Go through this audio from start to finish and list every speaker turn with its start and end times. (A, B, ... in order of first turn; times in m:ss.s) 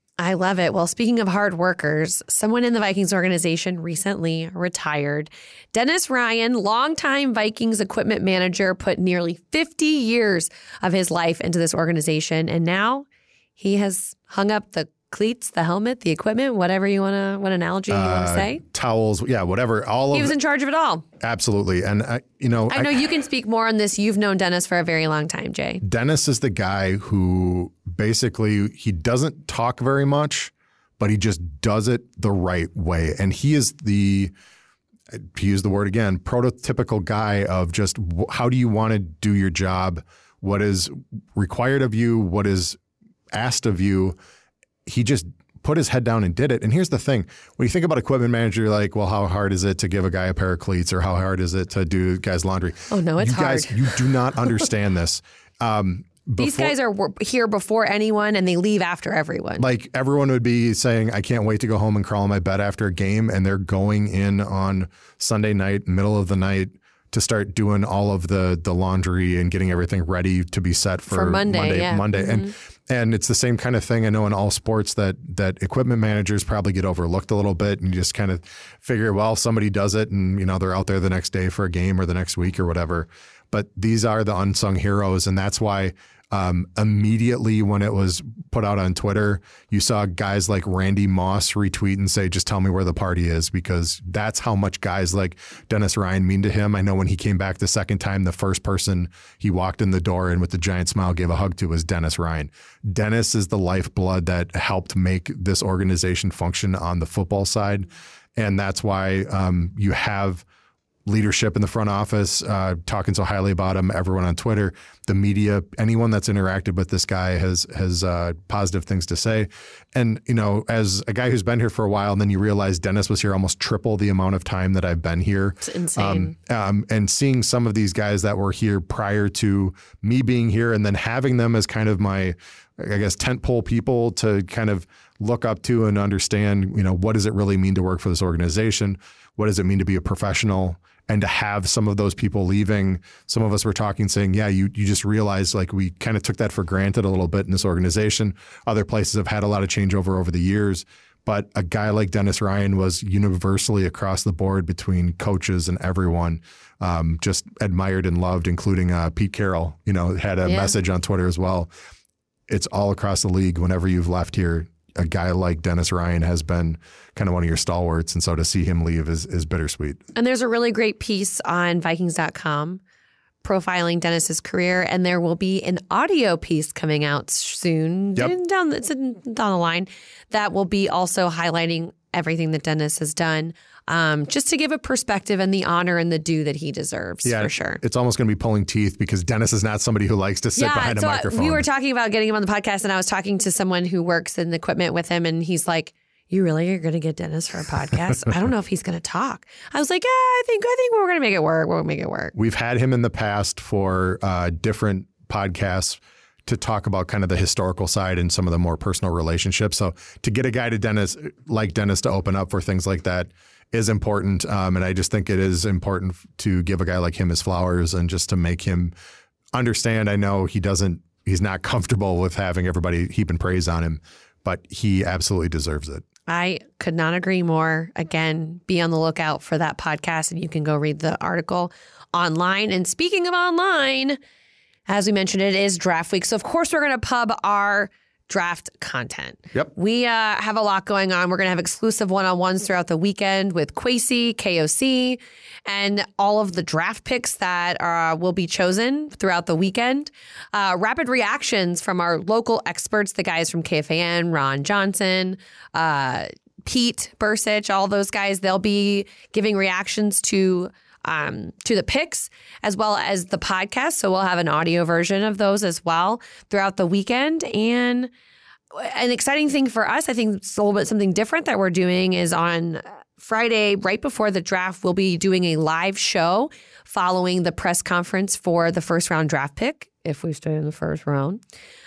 0:00.2-0:13.1 A
0:13.6-0:18.6 A
0:17.9-0:20.4 B
0:20.1-0:21.0 A
0:21.2-0:23.1 B
0:22.7-0:25.8 A
0:25.8-0:34.3 B
0:35.1-0:42.8 B
0:43.3-0:44.2 B
0:44.9-0:56.8 B
0:52.9-0:54.5 A
0:56.4-0:59.6 A
0:59.6-1:50.4 B
1:11.1-1:12.5 A
1:51.1-2:41.7 B
2:05.6-2:06.3 A
2:40.4-2:40.8 A
2:42.5-2:50.0 B
2:50.2-2:52.8 A
2:53.4-3:07.8 A
3:07.2-3:11.6 B
3:10.6-3:22.3 A
3:22.4-3:38.9 B
3:39.5-3:46.0 B
3:46.3-3:54.2 A
3:54.9-4:28.1 A
4:28.7-4:41.4 A